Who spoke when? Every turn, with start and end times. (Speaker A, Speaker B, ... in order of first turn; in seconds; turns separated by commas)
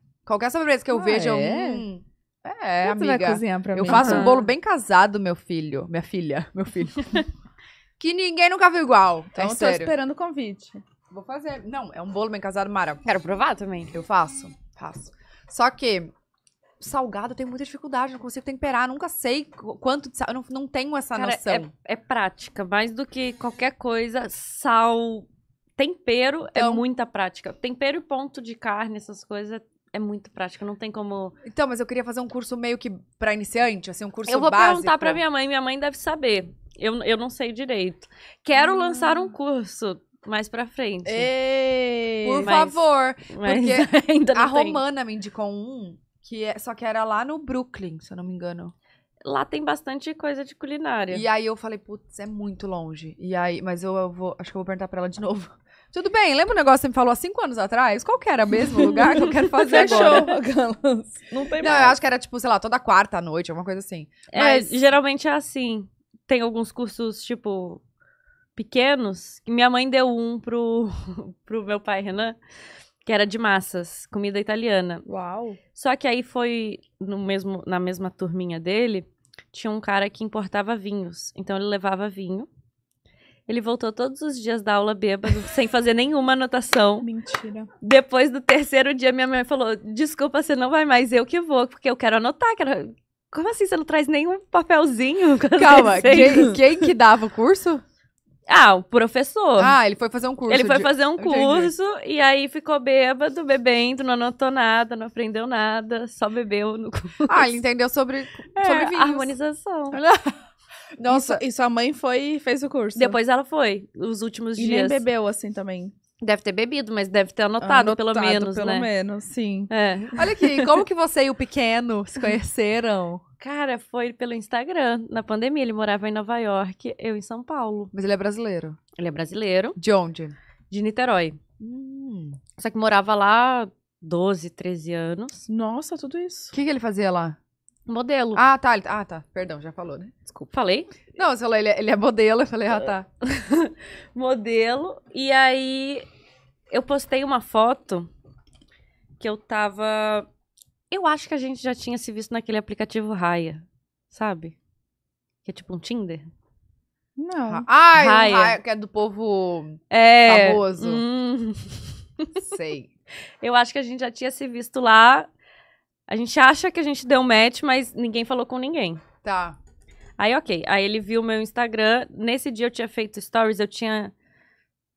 Speaker A: 0.2-7.2, Speaker B: 0.9-1.8, Speaker B: 2.8-4.3, Speaker C: 3.8-4.5, Speaker A: 8.0-9.9, Speaker B: 9.3-10.8, Speaker A: 11.1-13.0, Speaker C: 13.0-13.9, Speaker A: 13.9-16.1, Speaker A: 16.8-21.7, Speaker C: 21.1-31.4, Speaker A: 26.5-26.8, Speaker A: 31.4-35.2, Speaker C: 34.2-41.3, Speaker B: 41.0-42.5, Speaker A: 42.2-48.7, Speaker C: 42.4-44.8, Speaker C: 49.2-51.2, Speaker A: 51.1-60.4, Speaker B: 58.8-62.0, Speaker C: 59.0-60.3, Speaker A: 61.6-64.8, Speaker C: 64.3-67.8, Speaker C: 68.5-72.4, Speaker C: 73.0-75.0, Speaker B: 75.0-75.6, Speaker C: 75.7-82.5, Speaker C: 83.5-87.1, Speaker B: 87.0-87.7, Speaker C: 87.8-96.6, Speaker A: 95.6-97.8, Speaker C: 98.5-99.7, Speaker A: 99.6-101.7, Speaker C: 100.5-107.5, Speaker A: 107.3-109.3, Speaker C: 108.5-110.0, Speaker A: 109.9-110.4, Speaker A: 111.0-111.4, Speaker B: 111.1-113.2, Speaker C: 113.0-115.0, Speaker B: 114.6-115.9, Speaker C: 116.2-118.9, Speaker B: 117.6-119.7, Speaker C: 119.7-120.4, Speaker A: 120.2-123.2, Speaker C: 123.4-127.9, Speaker A: 127.9-128.8, Speaker C: 128.9-129.8, Speaker A: 129.8-130.3, Speaker C: 130.7-131.4, Speaker A: 131.6-132.4, Speaker C: 132.6-135.4, Speaker B: 135.5-136.5, Speaker A: 136.5-137.4, Speaker C: 137.9-138.4, Speaker A: 138.3-140.5, Speaker C: 140.5-140.9, Speaker A: 141.1-143.1, Speaker C: 143.2-146.0, Speaker C: 146.7-148.1, Speaker C: 149.2-150.3, Speaker C: 150.9-154.6, Speaker C: 155.4-156.3, Speaker B: 157.2-157.6, Speaker A: 157.5-161.0, Speaker C: 157.9-158.6, Speaker C: 159.9-162.4, Speaker A: 162.4-162.9, Speaker C: 163.4-165.3, Speaker C: 166.1-169.0, Speaker A: 169.2-169.6, Speaker C: 170.2-174.1